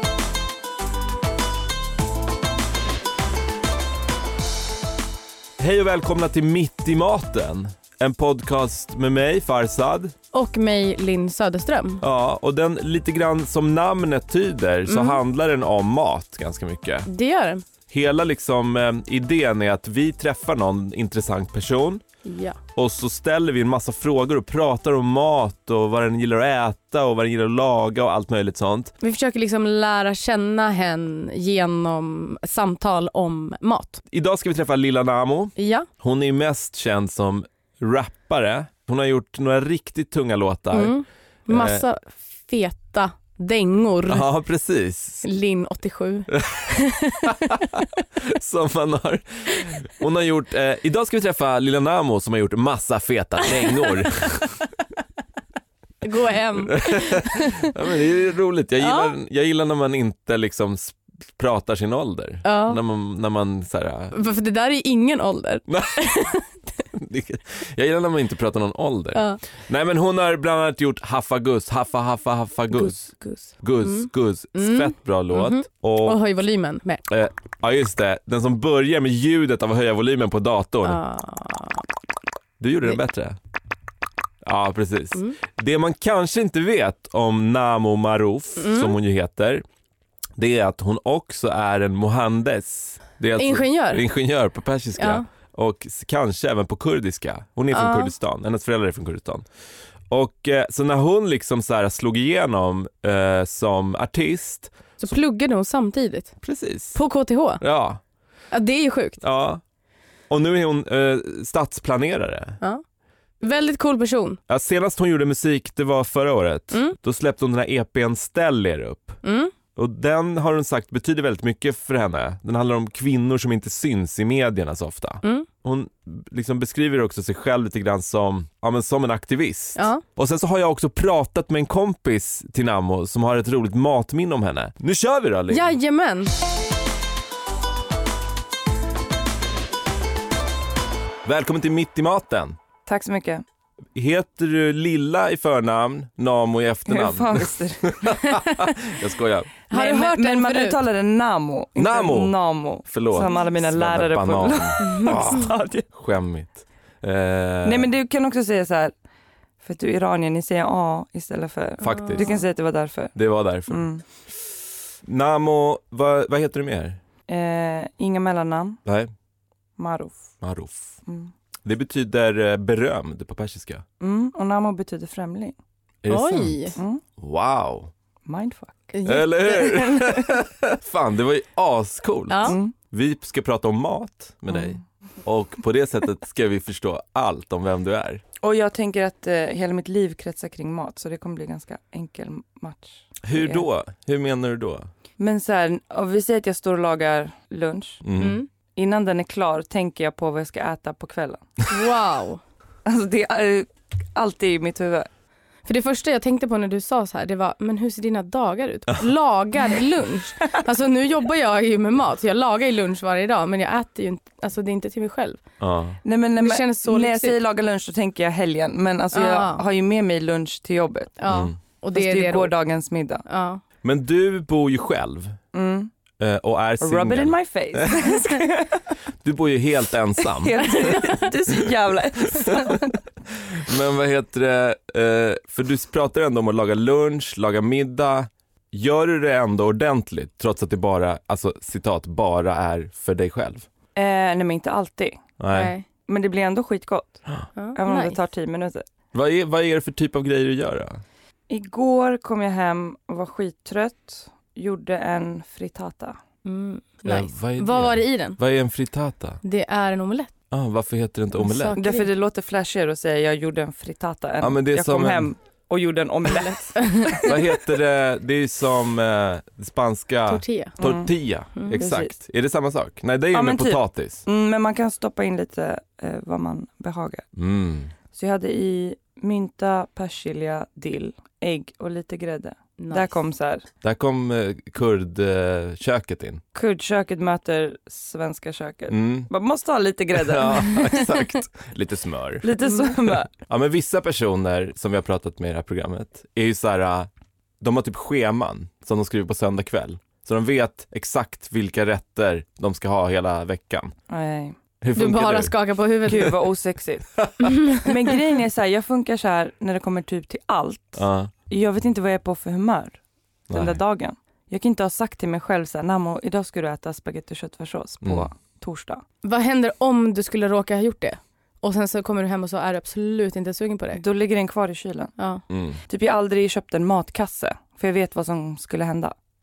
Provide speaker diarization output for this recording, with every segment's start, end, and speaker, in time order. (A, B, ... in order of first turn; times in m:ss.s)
0:05.6-0:10.2 A
0:10.3-0:12.0 B
0:12.0-0:17.1 A
0:14.9-0:15.2 B
0:17.1-0:17.6 B
0:17.9-0:22.0 A
0:22.2-0:22.6 B
0:22.8-0:28.9 A
0:29.0-0:34.0 B
0:34.1-0:40.9 A
0:35.6-0:35.9 B
0:40.7-0:44.3 B
0:41.5-0:41.8 A
0:44.1-0:45.3 A
0:45.2-0:47.6 B
0:46.3-0:46.7 A
0:47.2-0:54.6 A
0:56.0-0:57.7 B
0:56.6-1:04.2 A
0:58.8-0:59.1 B
1:02.4-1:02.8 B
1:04.1-1:06.5 B
1:05.7-1:06.4 A
1:06.9-1:16.2 A
1:09.2-1:09.4 B
1:12.7-1:17.0 B
1:17.1-1:21.0 A
1:20.8-1:21.8 B
1:22.6-1:23.4 A
1:24.4-1:29.6 A
1:28.6-1:29.0 B
1:30.4-1:39.4 A
1:33.4-1:34.0 B
1:35.0-1:35.2 B
1:37.7-1:38.1 B
1:40.1-1:45.1 A
1:45.0-1:46.4 B
1:46.4-1:47.0 A
1:47.0-1:47.6 B
1:47.6-1:48.0 A
1:48.5-1:49.2 B
1:49.2-1:49.6 A
1:50.3-1:52.6 A
1:53.4-1:54.4 B
1:54.5-1:59.2 A
1:56.7-1:57.0 B
1:59.2-1:59.5 B
1:59.8-2:15.7 A
2:09.8-2:10.0 B
2:15.5-2:16.3 B
2:21.2-2:22.6 A
2:22.9-2:23.4 C
2:24.0-2:29.5 A
2:26.9-2:28.2 C
2:29.7-2:30.8 B
2:29.7-2:35.9 C
2:31.8-2:37.9 A
2:34.8-2:35.3 B
2:37.6-2:38.9 C
2:39.6-2:43.2 C
2:41.8-2:42.4 A
2:41.9-2:42.3 B
2:43.1-2:43.9 A
2:43.7-2:44.0 C
2:45.0-2:47.0 A
2:47.3-2:48.8 C
2:48.8-2:49.1 A
2:49.8-2:50.3 C
2:50.4-2:51.0 A
2:51.1-2:51.3 C
2:51.6-2:53.8 A
2:54.0-2:55.6 C
2:56.0-2:57.9 A
2:56.1-2:56.8 B
2:56.8-2:57.0 C
2:58.3-2:58.9 C
2:58.9-2:59.7 B
2:59.0-3:08.2 A
2:59.5-3:00.4 C
3:02.3-3:02.6 B
3:02.5-3:02.7 C
3:08.4-3:13.7 C
3:13.2-3:14.9 A
3:15.2-3:18.0 C
3:18.0-3:18.4 A
3:18.2-3:18.5 B
3:18.8-3:21.5 C
3:21.7-3:22.4 B
3:22.8-3:25.1 C
3:25.7-3:35.4 B
3:35.6-3:36.0 A
3:36.0-3:41.2 C
3:36.4-3:37.4 B
3:39.1-3:39.6 B
3:41.2-3:42.5 B
3:41.3-3:41.6 A
3:41.9-3:43.2 C
3:43.3-3:43.6 B
3:43.8-3:45.4 A
3:45.5-3:45.9 C
3:46.2-3:48.0 A
3:46.8-3:48.9 C
3:49.2-3:51.2 A
3:50.2-3:53.0 C
3:52.4-4:03.7 A
4:04.0-4:05.2 C
4:05.4-4:05.7 A
4:05.5-4:05.9 B
4:06.1-4:07.2 C
4:07.6-4:08.2 B
4:07.8-4:08.8 C
4:09.1-4:11.0 A
4:11.5-4:16.2 C
4:16.4-4:18.4 B
4:17.1-4:19.4 A
4:19.4-4:20.3 B
4:20.5-4:21.8 A
4:21.4-4:22.1 B
4:21.8-4:27.6 C
4:24.4-4:25.3 A
4:26.8-4:27.1 B
4:27.2-4:34.2 A
4:30.3-4:30.8 B
4:30.8-4:31.1 C
4:31.7-4:32.2 C
4:33.3-4:37.3 C
4:37.4-4:37.9 A
4:38.1-4:43.6 C
4:42.8-4:43.1 B
4:43.8-4:46.4 A
4:46.5-4:51.0 C
4:48.9-4:49.3 A
4:50.2-4:57.1 A
4:52.4-4:53.3 C
4:57.6-5:04.0 A
5:04.1-5:04.6 C
5:04.8-5:05.5 A
5:05.0-5:06.4 B
5:06.1-5:13.0 C
5:07.2-5:07.5 A
5:07.4-5:07.9 B
5:11.0-5:11.3 A
5:13.5-5:13.8 A
5:13.5-5:19.0 C
5:19.2-5:24.0 B
5:23.9-5:25.1 C
5:25.2-5:25.4 B
5:25.5-5:25.8 A
5:25.9-5:29.1 C